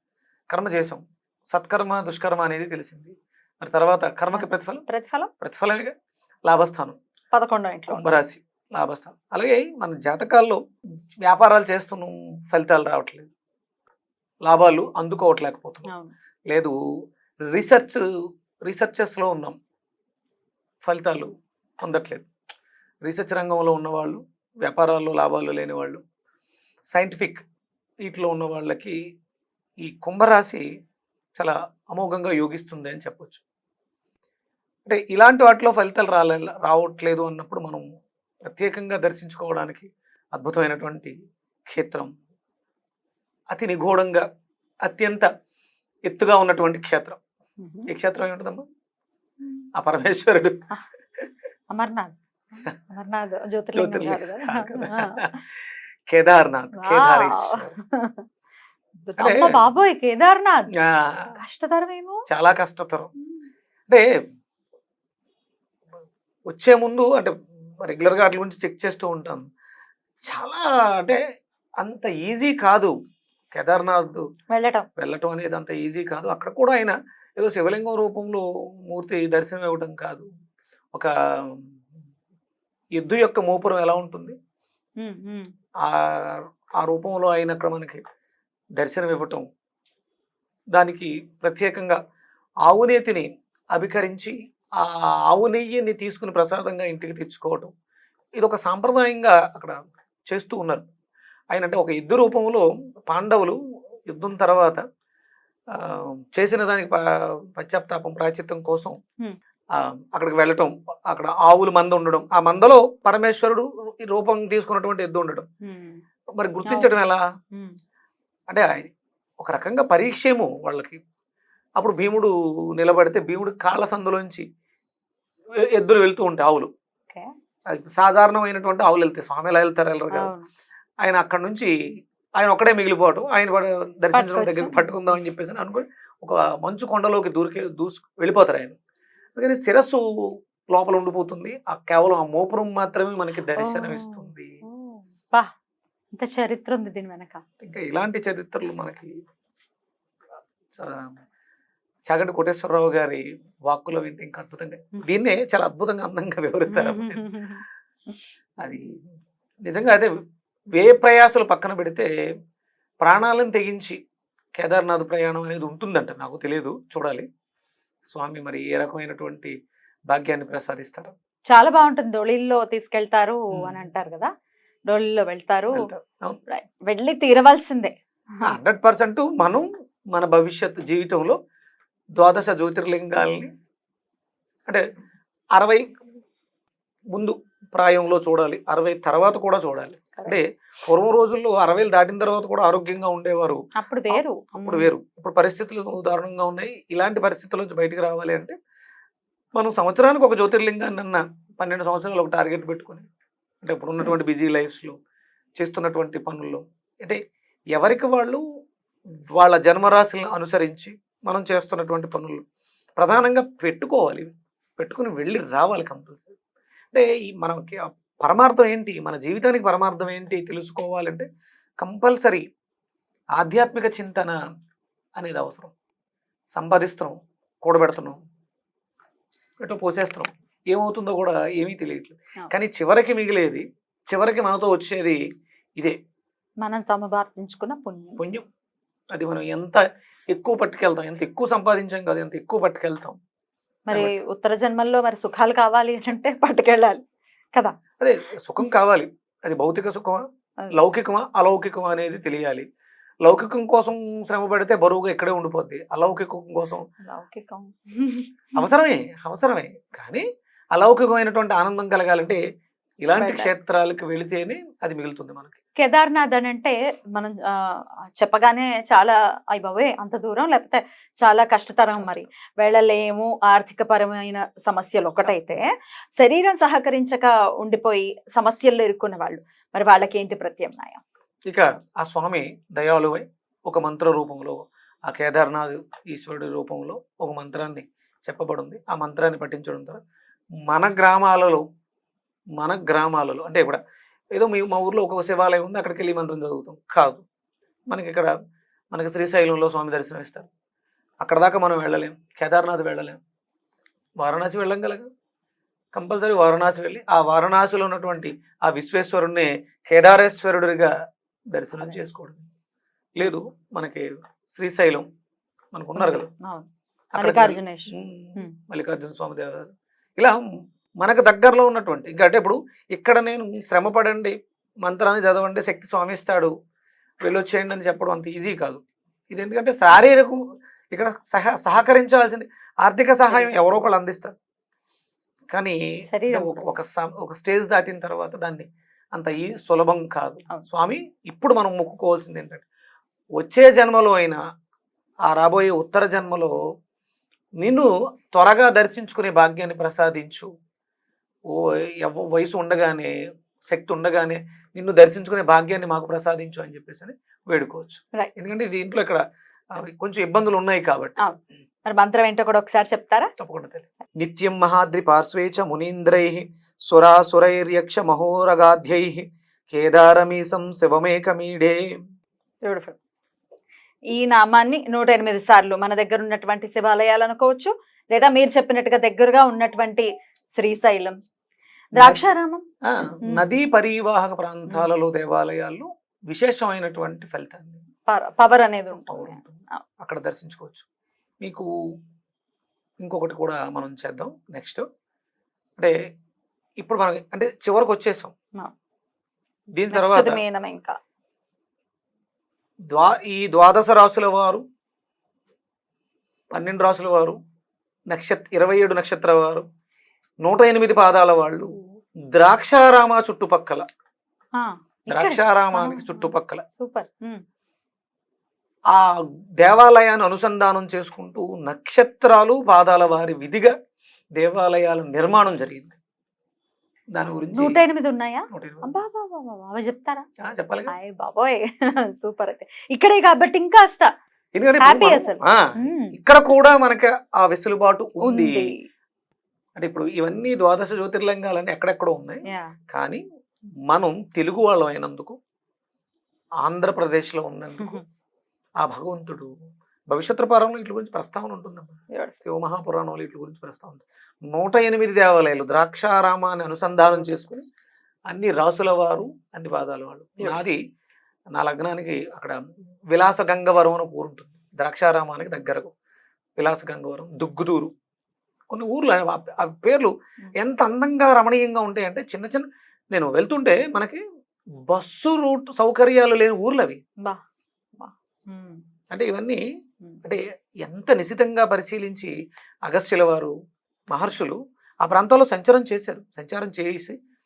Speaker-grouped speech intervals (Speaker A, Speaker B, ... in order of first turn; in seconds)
Speaker A: 0.5-4.9, 5.4-5.9, 6.5-7.0, 7.9-10.6, 11.2-13.3, 14.4-15.9, 16.5-16.8, 17.4-18.0, 18.7-19.6, 20.8-21.3, 21.8-22.3, 23.0-26.0, 26.9-27.4, 28.0-29.0, 29.8-30.6, 31.4-33.4, 34.9-37.9, 38.5-41.1, 41.7-42.1, 43.5-44.2, 44.8-45.3, 46.1-47.2, 47.9-48.7, 49.8-50.6, 53.8-55.5, 56.1-57.7, 59.2-59.6, 60.8-61.3, 62.3-63.1, 66.5-69.5, 70.3-71.2, 71.8-72.9, 73.5-74.3, 75.0-80.3, 80.9-81.7, 83.0-84.4, 85.8-88.0, 88.8-89.5, 90.7-92.0, 92.7-97.7, 98.4-99.8, 100.3-100.9, 101.5-103.6, 104.1-104.8, 105.7-109.0, 109.7-115.5, 116.4-117.2, 118.5-121.0, 121.8-124.5, 125.6-126.7, 127.7-130.3, 131.0-131.7, 132.4-138.8, 139.4-140.0, 140.7-144.6, 147.6-149.2, 150.7-151.1, 152.1-157.2, 158.6-158.9, 159.7-160.1, 160.8-162.1, 163.0-164.0, 164.6-167.3, 168.1-169.6, 170.1-171.1, 175.8-176.4, 178.4-181.4, 182.2-183.5, 185.6-185.9, 187.1-198.6, 199.6-203.1, 203.6-205.0, 205.6-207.2, 207.7-208.4, 209.3-212.4, 213.0-216.4, 216.9-221.3, 221.8-222.4, 223.4-224.4, 225.2-225.7, 226.5-228.2, 229.6-235.2, 238.2-238.4, 239.1-243.2, 248.0-252.7, 253.2-256.9, 258.6-262.4, 263.1-265.6, 275.2-275.6, 281.5-290.0, 290.6-291.6, 292.6-293.8, 294.3-297.2, 297.9-298.3, 298.9-300.5, 301.2-303.2, 304.2-305.1, 305.9-310.9, 311.5-312.5, 313.2-315.1, 315.7-316.3, 317.1-320.4, 321.0-326.5, 327.2-330.4, 330.9-334.3, 335.5-335.8, 336.3-342.6, 343.4-344.4, 345.3-346.5, 347.6-350.5, 351.5-353.1, 353.7-359.2, 359.7-361.2, 363.4-371.8, 381.9-382.2, 382.9-387.8, 389.1-390.9, 391.4-391.7, 393.0-394.9, 396.8-398.3, 399.8-400.4, 402.9-404.6, 406.5-407.4, 408.1-409.6, 410.4-411.7, 412.3-413.9, 415.1-416.6, 418.9-423.7, 424.4-426.0, 427.1-427.8, 428.5-429.0, 430.4-430.9, 434.6-438.7, 439.8-443.2, 443.9-445.4, 446.6-448.0, 448.8-449.5, 450.1-457.6, 458.3-460.8, 461.6-462.6, 463.1-465.9, 466.6-467.9, 468.7-474.2, 474.9-477.0, 479.1-479.6, 480.2-482.3, 482.9-483.5, 484.1-487.1
Speaker B: 4.3-5.3, 7.3-8.0, 15.9-16.1, 47.6-47.9, 51.7-55.3, 56.8-58.3, 59.1-60.7, 61.4-62.2, 74.5-74.9, 85.0-85.5, 115.6-116.0, 116.7-117.0, 130.1-130.5, 134.1-134.9, 143.6-145.5, 146.2-147.4, 156.7-157.6, 171.5-174.3, 174.9-175.9, 176.5-178.5, 193.8-194.9, 236.6-238.2, 243.9-247.0, 257.1-258.7, 263.2-263.5, 265.8-275.7, 276.2-281.0, 316.0-318.5, 333.3-333.5, 336.1-336.6, 361.2-363.3, 372.6-373.0, 374.1-381.2, 381.9-382.6, 388.1-389.8, 399.9-401.0, 414.6-417.4, 427.5-430.2, 430.9-434.1, 434.8-436.1, 438.2-438.9, 442.5-442.7, 452.1-452.4, 478.0-478.8